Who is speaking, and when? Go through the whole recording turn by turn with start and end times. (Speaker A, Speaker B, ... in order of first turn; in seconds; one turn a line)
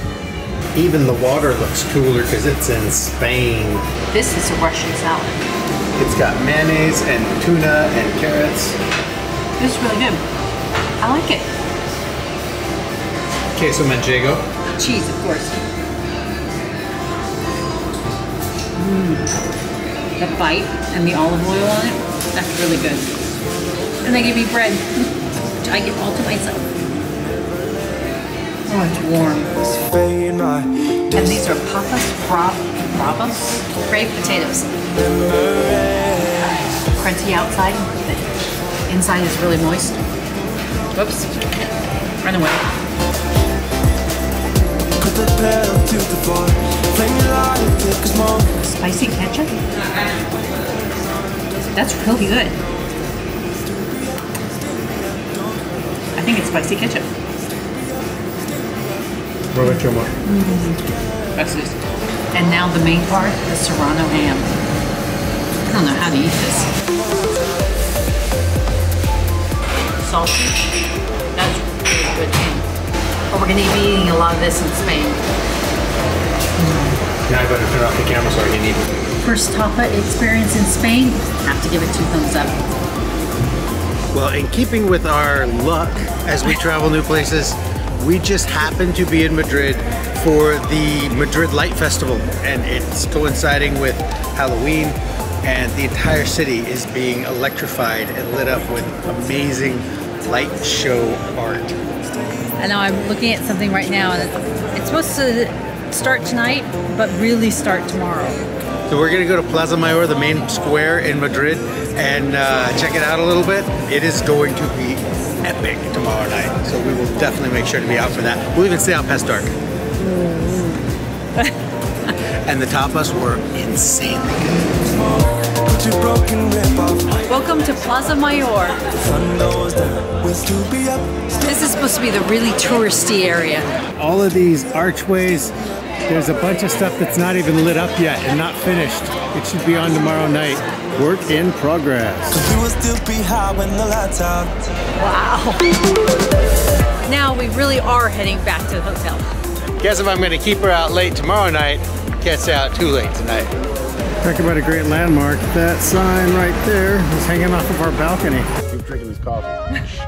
Speaker A: 0.7-3.9
Speaker B: 4.1-5.4
Speaker A: 6.0-8.8
Speaker B: 9.6-10.2
Speaker B: 11.0-11.5
Speaker A: 13.5-14.4
Speaker B: 14.8-15.6
Speaker B: 18.8-19.3
Speaker B: 20.2-23.1
Speaker B: 24.0-26.7
Speaker B: 28.7-29.8
Speaker C: 30.0-30.7
Speaker B: 31.1-34.7
Speaker B: 36.9-38.4
Speaker B: 38.9-40.0
Speaker B: 40.9-41.3
Speaker B: 42.2-42.6
Speaker C: 45.0-48.3
Speaker B: 48.4-49.6
Speaker B: 51.7-52.6
Speaker B: 56.1-57.1
Speaker A: 59.5-60.1
Speaker B: 59.6-60.8
Speaker B: 61.3-61.8
Speaker B: 62.3-64.5
Speaker B: 65.7-66.7
Speaker B: 69.9-70.7
Speaker B: 71.3-72.6
Speaker B: 73.3-75.2
Speaker B: 76.6-77.0
Speaker A: 77.3-78.8
Speaker B: 79.2-82.6
Speaker A: 84.1-101.8
Speaker B: 102.6-108.4
Speaker A: 108.9-119.5
Speaker B: 120.0-121.5
Speaker A: 122.5-124.8
Speaker C: 125.7-127.0
Speaker B: 127.3-128.8
Speaker C: 129.1-131.0
Speaker B: 131.4-133.7
Speaker A: 134.0-135.5
Speaker A: 136.1-142.5
Speaker C: 142.4-144.5
Speaker B: 145.0-145.7
Speaker B: 147.1-149.3
Speaker A: 149.8-153.5
Speaker A: 154.2-159.6